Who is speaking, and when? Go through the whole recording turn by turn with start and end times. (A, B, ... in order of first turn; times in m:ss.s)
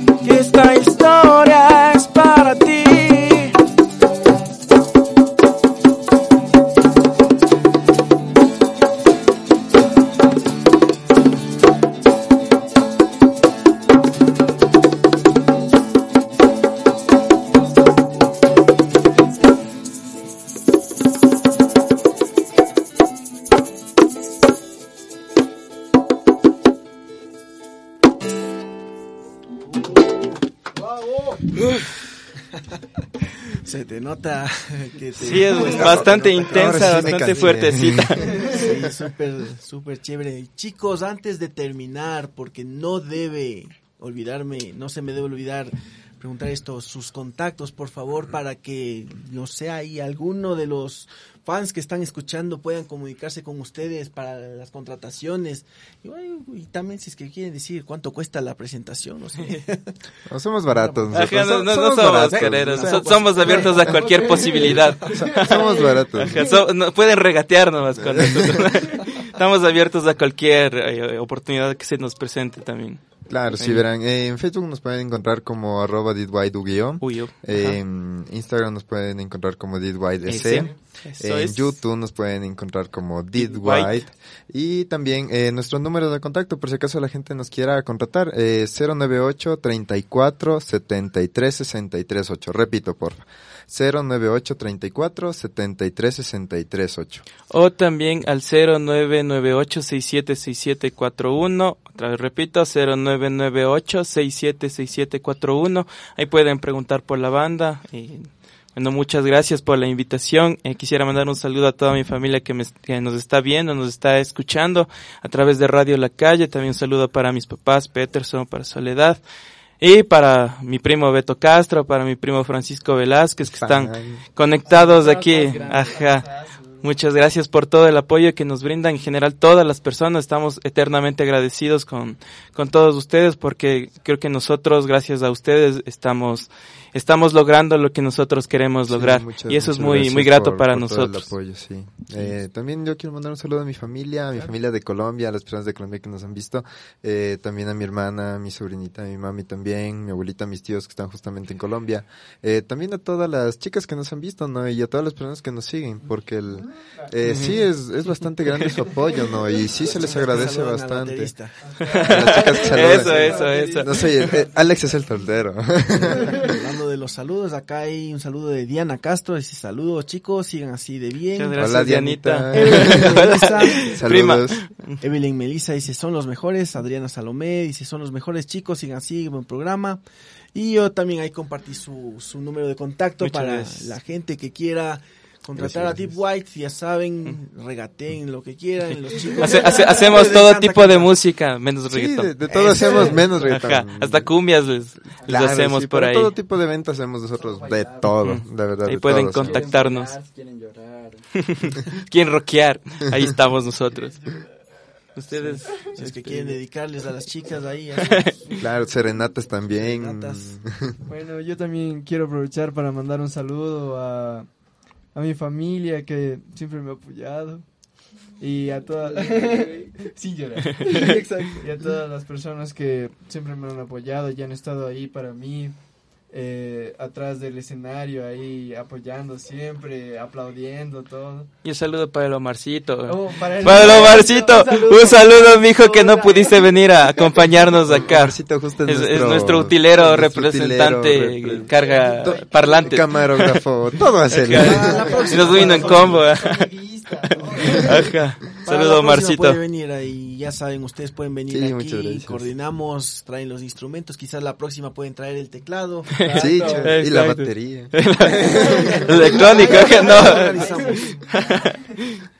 0:00.2-0:03.6 A
0:33.5-0:37.6 B
0:35.2-0:38.5 A
0:35.3-0:38.6 C
0:38.4-0:59.9 B
1:00.3-1:04.0 C
1:00.7-1:04.8 B
1:01.1-1:13.0 A
1:05.0-1:06.4 C
1:08.1-1:08.7 C
1:13.3-1:37.2 C
1:13.6-1:13.8 A
1:17.0-1:17.8 A
1:20.3-1:21.8 A
1:23.3-1:24.0 A
1:37.5-1:59.2 A
1:59.8-2:06.3 A
2:03.4-2:04.2 C
2:04.7-2:06.2 D
2:04.7-2:06.6 E
2:06.8-2:21.3 A
2:18.9-2:41.3 C
2:37.2-2:37.6 A
2:39.8-2:41.6 B
2:41.8-2:44.4 E
2:41.8-2:44.1 A
2:42.0-2:46.5 C
2:46.1-2:51.6 B
2:51.4-2:55.0 A
2:51.6-2:54.6 C
2:52.5-2:53.9 B
2:55.0-3:00.0 B
3:00.5-3:11.1 B
3:03.2-3:03.9 A
3:05.5-3:06.2 C
3:08.9-3:16.3 A
3:11.9-3:14.3 C
3:12.5-3:13.1 B
3:12.9-3:13.2 D
3:15.2-3:15.5 D
3:15.2-3:19.6 C
3:17.3-3:18.1 D
3:18.2-3:20.1 A
3:19.3-3:21.2 D
3:21.5-3:24.2 A
3:25.1-3:26.6 A
3:25.9-3:28.5 B
3:28.0-3:28.3 A
3:28.5-3:31.0 C
3:29.7-3:30.6 B
3:31.0-3:34.5 E
3:35.1-3:37.6 E
3:38.4-3:45.7 E
3:39.0-3:40.0 D
3:40.7-3:41.1 A
3:46.3-3:51.5 E
3:51.6-4:03.6 A
3:53.0-3:57.5 E
3:57.8-4:01.7 C
4:01.7-4:02.8 E
4:02.2-4:05.9 C
4:04.3-4:06.6 A
4:04.5-4:06.2 B
4:04.8-4:08.2 E
4:07.3-4:09.6 A
4:07.4-4:07.8 D
4:08.6-4:16.1 B
4:11.5-4:12.5 C
4:16.2-4:16.9 D
4:16.2-4:22.2 A
4:16.3-4:16.8 E
4:16.3-4:19.4 C
4:18.6-4:21.2 B
4:19.1-4:21.0 E